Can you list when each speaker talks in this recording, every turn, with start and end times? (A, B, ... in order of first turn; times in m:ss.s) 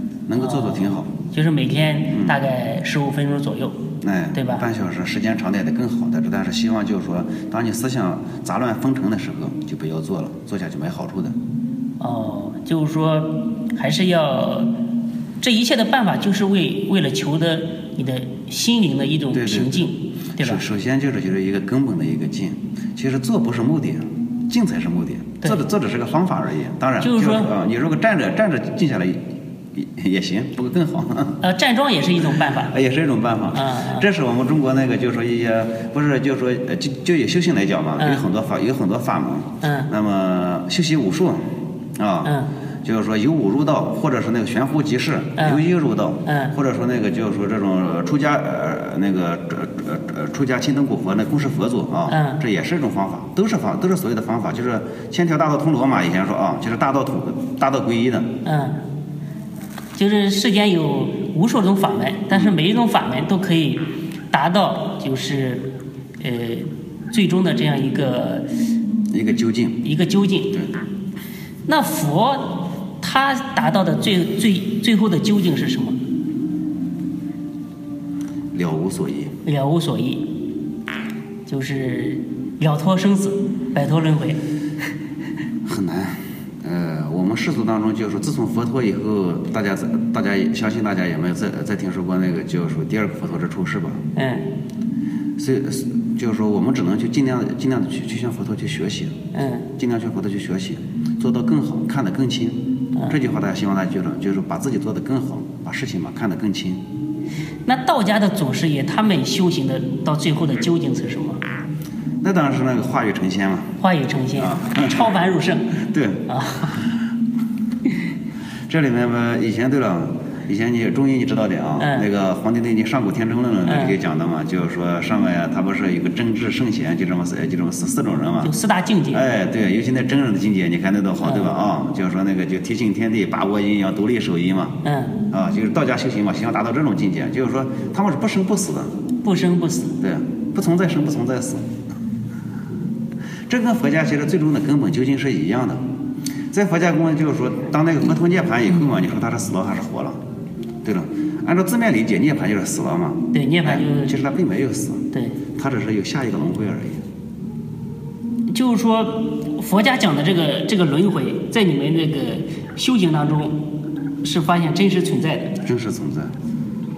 0:00.3-0:01.1 A
0:00.4-0:03.8 B
0:02.1-0:02.4 A
0:04.0-0:11.4 A
0:04.3-0:04.6 B
0:12.0-0:14.7 B
0:15.4-0:20.6 B
0:19.3-0:31.4 A
0:27.0-0:27.5 B
0:31.4-0:32.7 B
0:32.6-0:58.4 A
0:33.5-0:34.1 B
0:38.0-0:38.2 B
0:39.6-0:39.9 B
0:42.2-0:42.5 B
0:45.4-0:45.6 B
0:46.2-0:46.5 B
0:52.1-0:52.4 B
0:58.4-0:58.8 B
1:00.0-1:08.5 B
1:09.1-1:09.8 A
1:09.8-1:10.5 B
1:11.7-1:16.0 B
1:18.5-1:19.4 A
1:19.4-1:20.3 B
1:21.5-1:24.4 B
1:25.6-1:34.0 A
1:34.1-1:34.5 B
1:35.4-1:39.2 A
1:39.3-1:39.7 B
1:39.8-1:46.8 A
1:47.6-1:51.4 B
1:52.2-1:53.8 A
1:53.8-1:55.7 B
1:54.4-1:55.1 A
1:55.7-1:56.8 A
1:56.3-1:56.8 B
1:58.7-2:08.5 A
2:01.8-2:02.1 B
2:03.7-2:03.9 B
2:08.4-2:09.3 B
2:09.1-2:14.8 A
2:11.2-2:11.5 B
2:14.8-2:15.2 B
2:15.3-2:18.9 A
2:19.2-2:20.0 B
2:20.0-2:21.7 A
2:23.5-2:25.8 A
2:26.5-2:30.2 A
2:30.8-2:37.0 A
2:33.3-2:34.1 B
2:38.5-2:43.6 B
2:44.2-2:45.6 B
2:45.6-2:46.3 A